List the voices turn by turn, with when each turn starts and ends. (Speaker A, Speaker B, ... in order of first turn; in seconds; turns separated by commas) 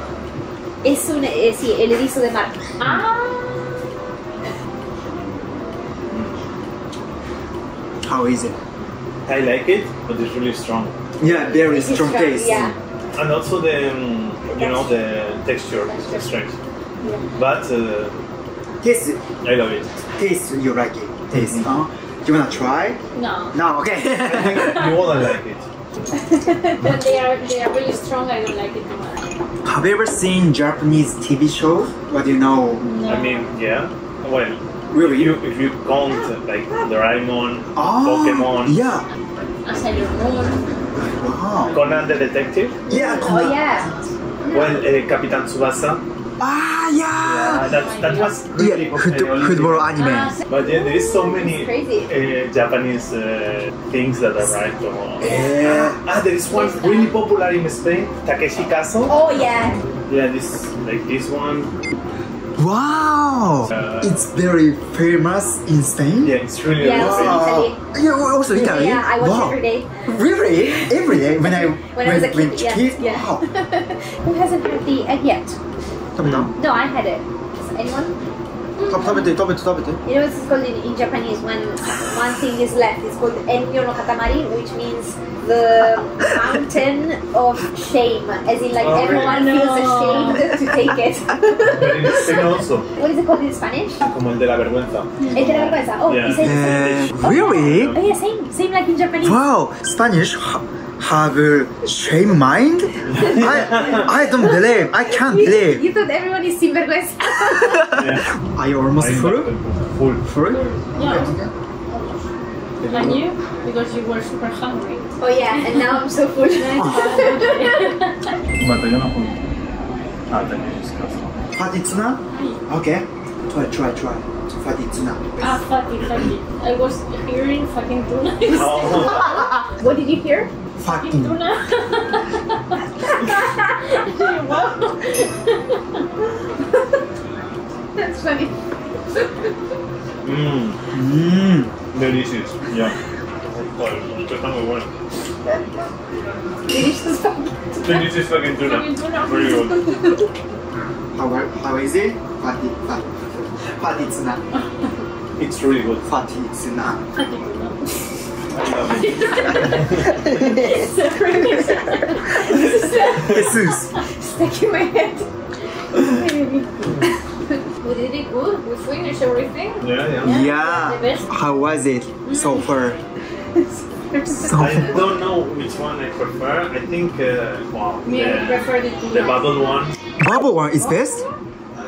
Speaker A: 0.8-2.6, Speaker B: 2.8-3.7, Speaker C: 6.1-6.4, Speaker D: 8.0-8.6, Speaker C: 9.3-11.0, Speaker D: 11.2-12.7, Speaker A: 11.2-12.7, Speaker C: 13.2-16.6, Speaker A: 14.5-15.0, Speaker A: 15.9-16.3, Speaker C: 17.4-18.2, Speaker D: 18.8-19.2, Speaker C: 19.4-19.9, Speaker D: 20.2-23.0, Speaker C: 21.3-21.7, Speaker B: 23.1-23.6, Speaker D: 23.5-25.0, Speaker C: 24.2-25.7, Speaker A: 26.2-27.0, Speaker B: 26.8-29.3, Speaker D: 29.6-32.9, Speaker B: 32.8-33.5, Speaker C: 33.1-38.8, Speaker D: 34.9-35.4, Speaker D: 37.8-39.1, Speaker B: 39.6-40.6, Speaker D: 41.1-41.8, Speaker C: 41.7-42.8, Speaker D: 42.9-43.9, Speaker A: 42.9-43.9, Speaker A: 44.5-44.8, Speaker C: 44.5-46.0, Speaker D: 46.4-47.6, Speaker C: 47.2-49.9, Speaker B: 47.7-48.4, Speaker D: 48.6-50.4, Speaker B: 50.0-50.4, Speaker C: 50.5-59.1, Speaker A: 51.3-52.1, Speaker D: 55.2-56.0, Speaker B: 56.5-57.2, Speaker A: 59.1-59.8, Speaker C: 60.1-61.7, Speaker D: 62.6-73.4, Speaker C: 63.7-64.0, Speaker C: 66.2-67.6, Speaker A: 66.8-67.8, Speaker A: 68.5-75.6, Speaker D: 76.2-76.6, Speaker C: 76.2-76.5, Speaker A: 76.6-78.2, Speaker B: 78.8-79.3, Speaker D: 78.9-80.0, Speaker A: 80.0-94.0, Speaker C: 88.8-89.6, Speaker B: 88.9-90.5, Speaker C: 91.6-92.9, Speaker C: 94.0-98.0, Speaker A: 95.3-99.4, Speaker D: 96.3-97.9, Speaker D: 99.2-105.8, Speaker C: 103.1-104.0, Speaker A: 103.2-103.7, Speaker A: 104.3-108.1, Speaker D: 107.8-109.5, Speaker C: 108.0-108.3, Speaker C: 109.0-110.2, Speaker D: 110.2-111.5, Speaker B: 110.5-111.3, Speaker B: 111.9-112.3, Speaker C: 112.8-113.2, Speaker B: 112.9-115.0, Speaker A: 115.2-118.0, Speaker B: 116.6-118.4, Speaker C: 118.6-119.3, Speaker C: 120.3-121.3, Speaker D: 121.6-125.6, Speaker B: 122.3-122.6, Speaker B: 125.4-129.3, Speaker C: 128.5-129.3, Speaker A: 128.8-130.5, Speaker D: 130.8-131.4, Speaker B: 131.0-132.3, Speaker B: 133.9-135.8, Speaker A: 138.0-138.6, Speaker A: 139.1-139.4, Speaker C: 140.2-140.8, Speaker D: 140.9-141.7, Speaker C: 141.9-144.9, Speaker A: 146.7-148.1, Speaker C: 147.8-149.9, Speaker B: 148.5-150.0, Speaker D: 151.1-154.4, Speaker C: 155.4-156.1, Speaker D: 156.1-157.0, Speaker B: 157.2-157.8, Speaker C: 158.5-160.1, Speaker B: 158.9-160.1, Speaker A: 159.8-165.3, Speaker D: 160.1-160.9, Speaker B: 160.6-161.9, Speaker D: 162.6-163.9, Speaker A: 165.9-167.1, Speaker B: 167.8-171.3, Speaker C: 169.8-170.4, Speaker D: 170.2-173.0, Speaker B: 172.3-172.6, Speaker A: 173.6-174.9, Speaker D: 174.3-175.0, Speaker C: 174.6-180.0, Speaker B: 178.0-179.6, Speaker D: 180.2-181.2, Speaker B: 180.8-181.3